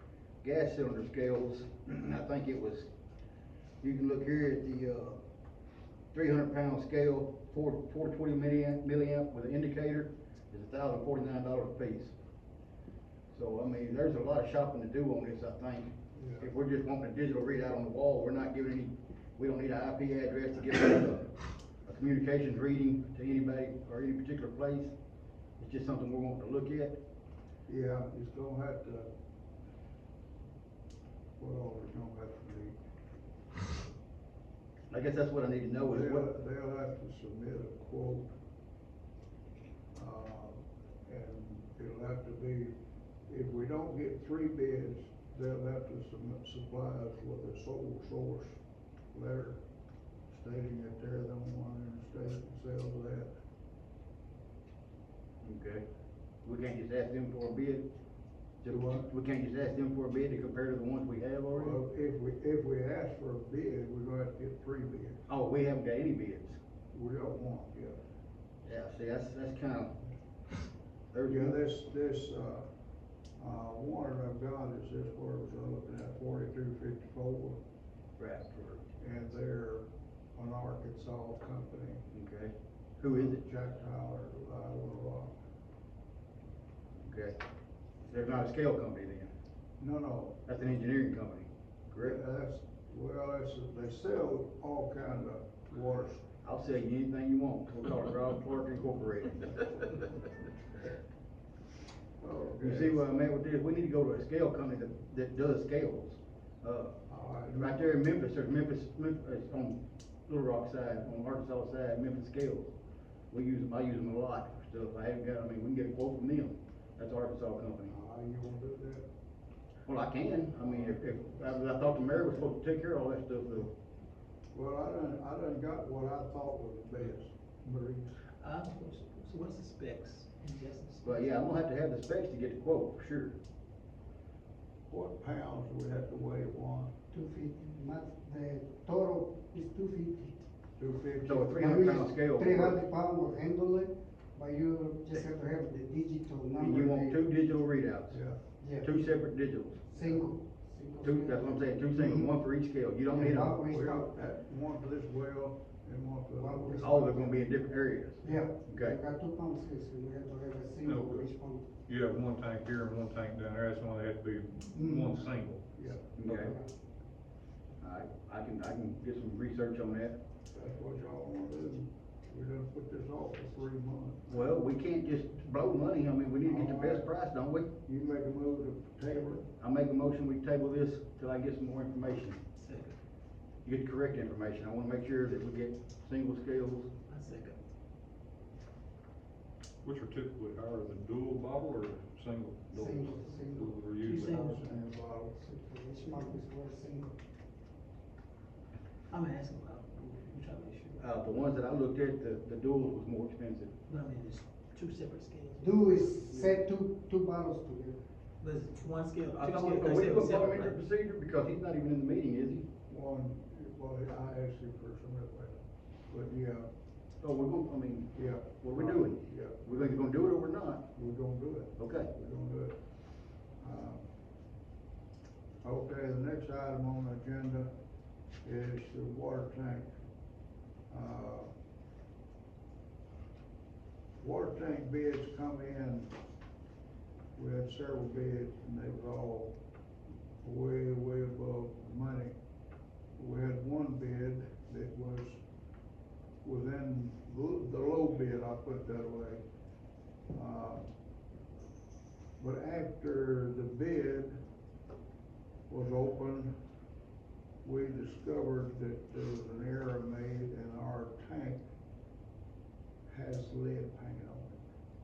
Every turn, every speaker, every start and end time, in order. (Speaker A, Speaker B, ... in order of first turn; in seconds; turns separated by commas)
Speaker A: 0.4-2.9, Speaker A: 3.8-5.2, Speaker A: 6.1-12.1, Speaker A: 13.3-21.3, Speaker B: 16.1-16.5, Speaker A: 21.9-24.9, Speaker A: 25.6-27.0, Speaker B: 27.7-29.1, Speaker B: 31.4-32.8, Speaker A: 34.9-36.3, Speaker B: 35.9-38.3, Speaker B: 39.9-42.8, Speaker B: 43.3-48.6, Speaker B: 49.1-49.6, Speaker B: 50.3-53.3, Speaker A: 55.4-55.8, Speaker A: 56.4-57.9, Speaker A: 58.6-61.8, Speaker B: 58.7-59.1, Speaker B: 61.5-65.2, Speaker A: 65.3-66.6, Speaker B: 66.9-68.0, Speaker A: 68.7-70.0, Speaker A: 71.1-71.6, Speaker B: 71.3-72.7, Speaker B: 73.4-77.6, Speaker A: 78.2-78.9, Speaker B: 79.0-82.0, Speaker A: 82.1-83.4, Speaker B: 83.1-85.3, Speaker A: 87.0-87.4, Speaker A: 88.1-89.3, Speaker B: 89.8-90.4, Speaker A: 90.5-92.2, Speaker B: 92.0-96.3, Speaker A: 96.4-99.7, Speaker B: 102.2-103.0, Speaker A: 102.6-107.0, Speaker B: 107.1-108.1, Speaker A: 107.5-112.7, Speaker A: 113.3-117.9, Speaker B: 117.9-119.1, Speaker A: 119.9-123.7, Speaker B: 120.6-121.2, Speaker B: 124.5-128.2, Speaker C: 128.4-131.3, Speaker A: 131.0-133.4, Speaker B: 134.9-136.9, Speaker D: 137.1-140.5, Speaker B: 140.8-141.8, Speaker A: 141.2-142.8, Speaker D: 141.6-147.2, Speaker A: 146.6-148.2, Speaker B: 148.1-148.4, Speaker D: 148.6-148.9, Speaker A: 148.8-149.9, Speaker D: 149.9-152.3, Speaker A: 151.0-153.6, Speaker D: 153.1-154.1, Speaker B: 153.2-157.2, Speaker D: 156.4-157.4, Speaker A: 156.8-159.0, Speaker D: 158.2-161.7, Speaker E: 160.8-161.3, Speaker E: 161.9-165.7, Speaker D: 164.8-165.2, Speaker B: 165.8-166.2, Speaker A: 166.2-166.6, Speaker D: 166.2-166.7, Speaker A: 167.8-170.2, Speaker B: 170.5-174.5, Speaker A: 174.3-177.7, Speaker B: 176.4-177.1, Speaker B: 177.8-179.5, Speaker A: 179.6-182.4, Speaker C: 182.6-182.9, Speaker A: 183.7-186.9, Speaker C: 187.1-187.6, Speaker E: 189.8-194.4, Speaker D: 192.7-193.8, Speaker C: 194.0-194.6, Speaker B: 194.2-195.3, Speaker D: 195.3-197.1, Speaker C: 199.1-201.1, Speaker A: 201.0-203.8, Speaker C: 203.9-206.2, Speaker D: 205.6-208.0, Speaker C: 208.4-210.8, Speaker A: 209.3-212.7, Speaker B: 212.9-215.6, Speaker B: 216.1-216.7, Speaker A: 217.2-220.9, Speaker B: 218.2-220.0, Speaker B: 220.9-222.8, Speaker A: 221.8-222.1, Speaker B: 223.6-224.1, Speaker B: 225.6-227.7, Speaker B: 228.4-229.9, Speaker B: 230.9-231.5, Speaker B: 234.2-236.1, Speaker B: 237.4-239.6, Speaker B: 240.4-242.3, Speaker B: 243.2-245.4, Speaker B: 246.4-249.4, Speaker B: 250.3-250.9, Speaker B: 252.4-254.4, Speaker B: 255.7-256.6, Speaker B: 257.6-261.6, Speaker B: 263.1-264.7